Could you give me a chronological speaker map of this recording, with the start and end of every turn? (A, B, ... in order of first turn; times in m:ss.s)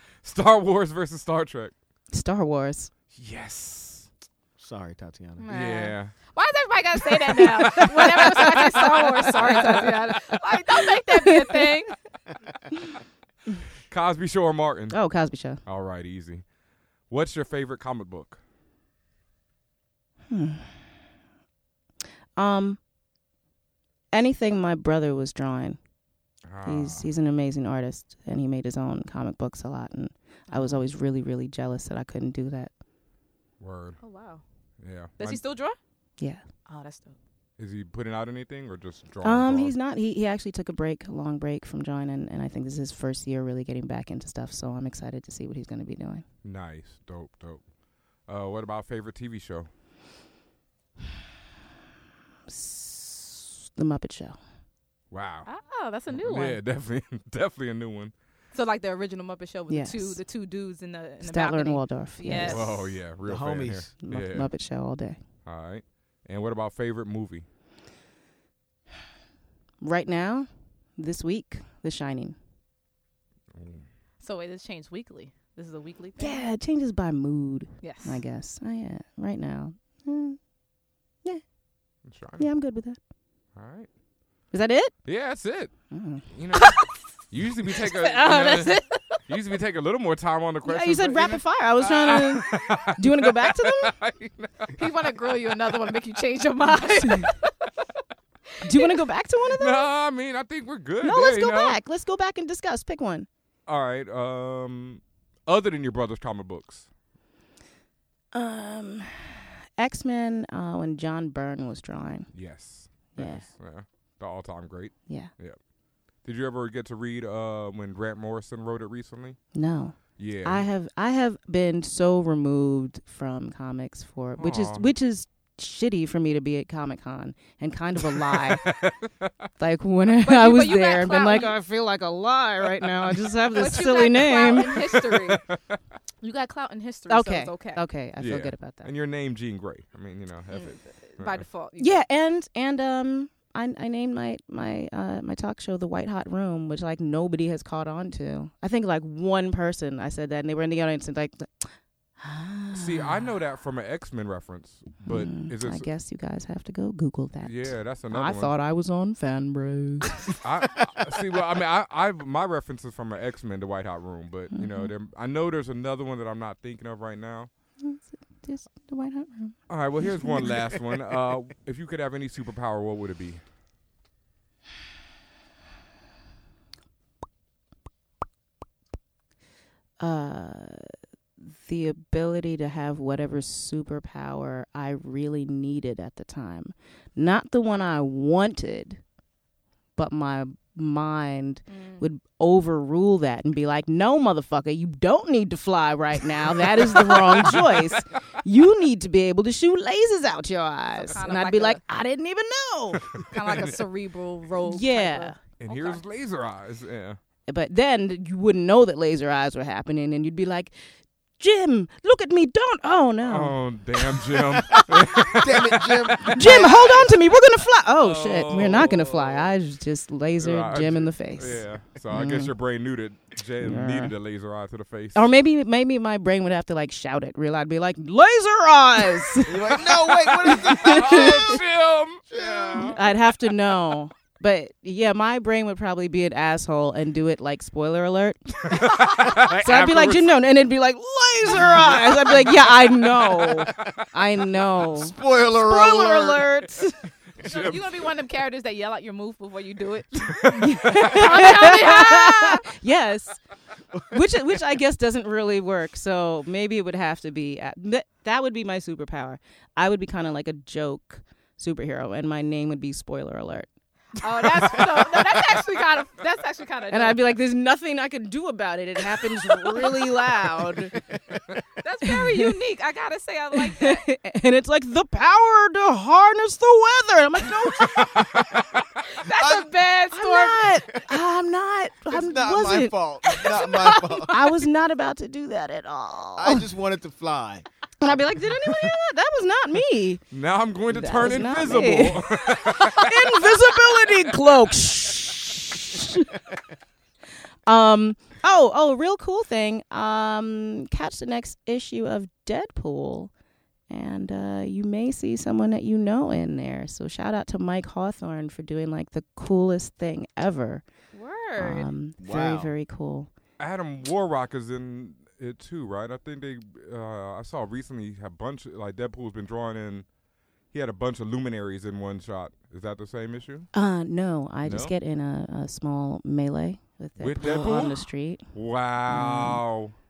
0:00.2-0:01.7 A
0:02.1-0:02.9 B
0:03.1-0:04.1 A
0:04.6-0:05.4 C
0:05.4-0:11.9 D
0:05.5-0:06.1 A
0:08.0-0:09.9 B
0:11.0-0:11.5 B
0:13.9-0:15.0 A
0:14.9-0:15.6 B
0:15.6-0:16.4 A
0:17.1-0:18.4 A
0:20.3-0:20.7 B
0:22.4-0:22.8 B
0:24.1-0:25.8 B
0:26.5-0:27.1 A
0:26.6-0:32.7 B
0:30.5-0:30.8 D
0:33.6-0:34.0 A
0:34.0-0:34.4 D
0:34.8-0:35.4 A
0:35.2-0:35.8 D
0:36.6-0:37.2 D
0:37.6-0:39.7 A
0:39.2-0:46.2 B
0:46.4-0:47.6 A
0:48.2-0:49.7 A
0:52.5-0:54.4 B
0:55.1-0:55.5 A
0:55.4-0:56.6 D
0:56.1-0:58.1 A
0:58.5-1:02.7 D
0:59.7-1:00.2 B
1:01.2-1:02.8 B
1:02.4-1:04.5 A
1:03.2-1:03.9 C
1:04.0-1:05.2 B
1:05.4-1:07.4 A
1:09.8-1:12.4 B
1:13.5-1:13.8 A
1:14.2-1:16.5 D
1:16.2-1:20.4 B
1:17.8-1:18.2 D
1:22.1-1:22.5 A
1:22.4-1:23.0 B
1:23.6-1:23.9 A
1:24.5-1:24.9 B
1:25.0-1:25.7 A
1:25.9-1:26.2 B
1:26.3-1:34.8 A
1:28.1-1:28.7 B
1:30.6-1:33.9 B
1:34.7-1:37.5 D
1:38.6-1:38.9 D
1:38.6-1:39.9 B
1:39.6-1:41.8 A
1:41.0-1:43.3 B
1:43.7-1:46.9 A
1:48.3-1:52.3 B
1:52.3-1:55.6 A
1:53.1-1:53.4 B
1:56.2-1:59.4 A
1:59.5-2:08.8 B
2:00.2-2:00.7 A
2:04.4-2:04.8 A
2:08.2-2:09.3 A
2:09.6-2:14.9 B
2:10.2-2:11.5 D
2:13.5-2:15.4 D
2:14.7-2:15.8 A
2:16.2-2:17.8 D
2:17.1-2:18.9 B
2:18.2-2:21.4 A
2:20.5-2:22.0 D
2:21.8-2:33.3 B
2:32.7-2:35.9 A
2:35.0-2:40.3 B
2:37.4-2:38.5 A
2:40.4-2:47.5 A
2:44.5-2:44.9 B
2:47.8-2:49.6 B
2:49.7-2:53.4 A
2:50.1-2:50.5 B
3:00.0-3:00.9 B
3:01.4-3:09.0 B
3:10.0-3:23.2 B
3:11.7-3:12.1 D
3:17.0-3:17.6 A
3:20.9-3:21.8 D
3:23.2-3:23.6 A
3:23.3-3:26.0 D
3:24.6-3:25.4 B
3:25.6-3:27.2 A
3:27.5-3:30.8 B
3:31.4-3:33.6 B
3:33.2-3:36.5 A
3:34.1-3:34.4 B
3:35.2-3:37.2 C
3:36.3-3:42.5 B
3:38.0-3:39.5 A
3:40.4-3:45.2 A
3:43.6-3:44.1 B
3:45.1-3:51.6 B
3:49.4-3:51.6 C
3:50.2-3:53.0 A
3:52.3-3:53.0 C
3:52.8-4:07.0 B
3:58.7-4:00.3 A
4:01.4-4:04.0 A
4:05.0-4:06.5 C
4:07.4-4:07.8 A
4:07.4-4:12.6 D
4:10.3-4:11.3 A
4:10.6-4:13.4 B
4:14.1-4:23.7 B
4:24.2-4:27.2 D
4:24.5-4:25.4 B
4:26.9-4:31.0 B
4:30.9-4:31.4 C
4:31.8-4:34.0 D
4:32.1-4:32.5 B
4:33.7-4:38.4 B
4:38.2-4:38.6 A
4:39.2-4:40.8 D
4:39.4-4:39.7 C
4:40.1-4:46.6 B
4:42.1-4:44.4 C
4:46.4-4:48.2 C
4:48.0-4:50.2 B
4:48.6-4:48.9 A
4:50.3-4:53.6 A
4:50.9-4:56.4 B
4:57.6-5:03.3 B
5:03.9-5:10.8 B
5:11.1-5:11.9 D
5:11.6-5:13.3 B
5:12.2-5:12.7 C
5:13.6-5:20.0 A
5:20.7-5:23.7 A
5:23.7-5:28.5 B
5:24.6-5:24.9 A
5:27.2-5:29.9 A
5:27.4-5:28.0 C
5:29.1-5:29.6 B